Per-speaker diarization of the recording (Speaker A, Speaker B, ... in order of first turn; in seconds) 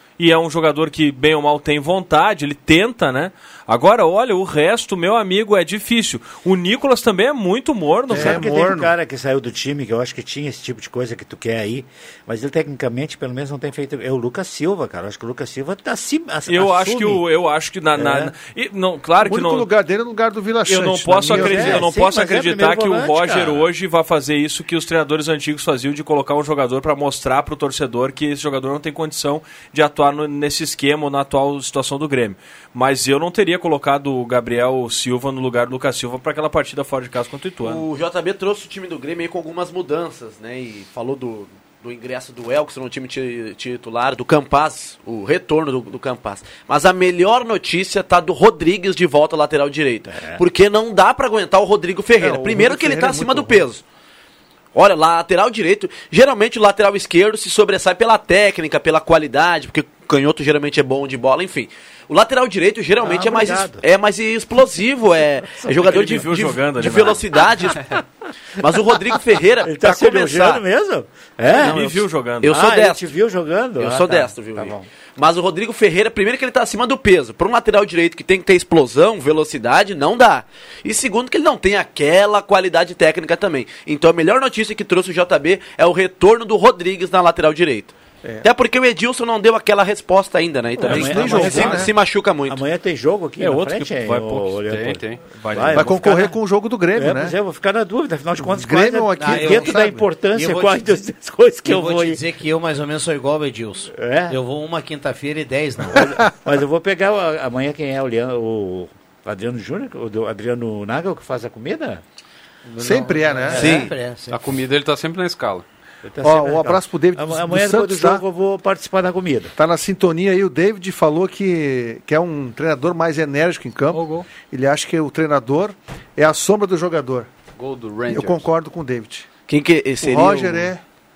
Speaker A: 0.2-8.5, 16.5-19.7, 20.7-37.8, 65.8-67.2, 71.5-72.5, 93.4-94.5, 95.4-95.9, 123.9-124.2
Speaker B: 8.1-8.9, 19.2-21.9, 52.2-53.7, 88.2-88.5, 90.8-91.9, 95.7-97.4, 98.4-100.0, 112.8-113.7, 116.2-118.2, 119.6-127.3, 128.1-129.3, 130.0-130.8
Speaker C: 8.1-17.2, 17.9-18.3, 21.3-23.7, 50.1-50.4, 63.0-63.8, 69.6-74.9, 90.8-91.9, 92.5-96.4, 96.9-102.2, 103.9-104.4, 105.9-112.0, 116.0-119.5
Speaker D: 37.6-53.8, 54.7-67.8, 68.6-70.6, 72.4-73.1, 73.8-92.6, 113.5-113.9, 129.5-130.7
Speaker E: 94.6-95.7, 114.3-115.7, 127.6-128.5
Speaker F: 99.2-101.0, 101.6-106.1, 112.7-114.5